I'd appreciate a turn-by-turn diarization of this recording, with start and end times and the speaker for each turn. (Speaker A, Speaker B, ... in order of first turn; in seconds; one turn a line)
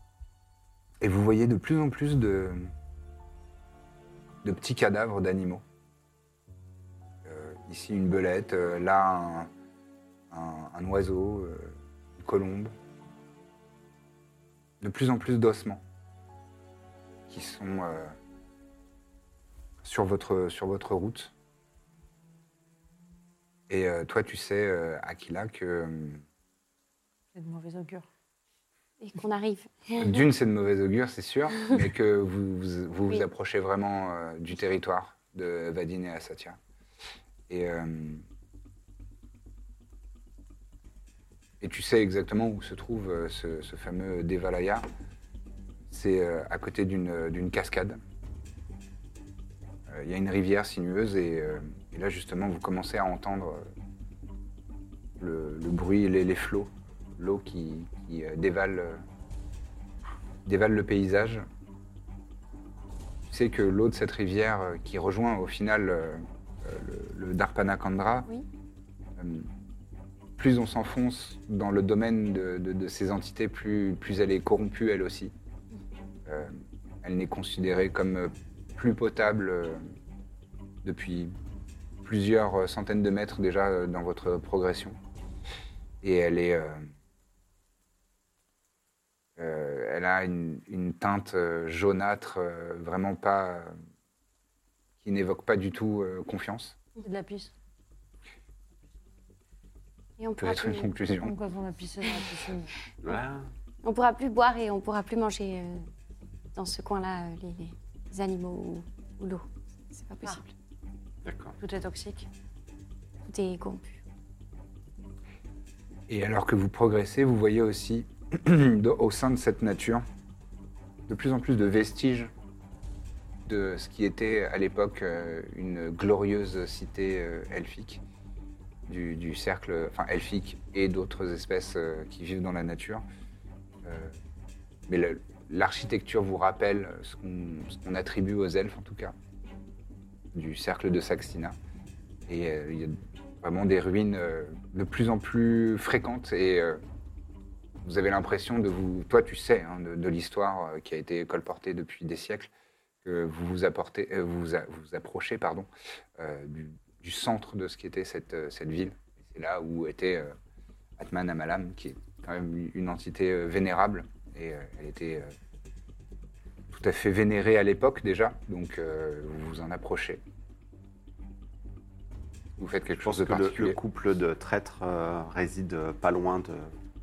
Speaker A: 1.0-2.7
Speaker A: 4.4-5.6
Speaker A: 7.2-9.5
Speaker A: 10.3-12.7
Speaker A: 14.8-15.8
Speaker A: 17.3-18.1
Speaker A: 19.8-21.3
Speaker A: 23.7-26.2
Speaker B: 27.4-28.1
Speaker C: 29.0-30.2
Speaker A: 30.0-36.6
Speaker A: 37.5-38.2
Speaker A: 41.6-44.9
Speaker A: 45.9-48.0
Speaker A: 49.9-53.7
Speaker A: 55.2-59.0
Speaker A: 60.4-61.4
Speaker A: 63.3-68.3
Speaker A: 69.2-69.5
Speaker A: 70.4-75.3
Speaker A: 76.3-79.9
Speaker A: 80.8-81.3
Speaker A: 82.0-85.0
Speaker A: 86.0-86.9
Speaker A: 89.4-93.7
Speaker A: 95.0-96.8
Speaker B: 97.0-97.5
Speaker C: 100.2-100.9
Speaker A: 100.4-101.3
Speaker B: 101.2-102.7
Speaker D: 103.0-103.5
Speaker C: 103.8-105.9
Speaker C: 106.5-110.5
Speaker D: 111.2-111.6
Speaker B: 111.6-112.3
Speaker C: 113.3-114.0
Speaker A: 116.1-120.0
Speaker A: 121.1-122.3
Speaker A: 123.5-128.0
Speaker A: 128.9-133.1
Speaker A: 133.8-134.2
Speaker A: 134.9-139.1
Speaker A: 140.3-141.6
Speaker A: 142.3-146.8
Speaker A: 147.8-152.5
Speaker A: 153.0-160.3
Speaker A: 161.0-165.3
Speaker A: 166.7-170.2
Speaker A: 172.6-173.8
Speaker D: 173.0-176.7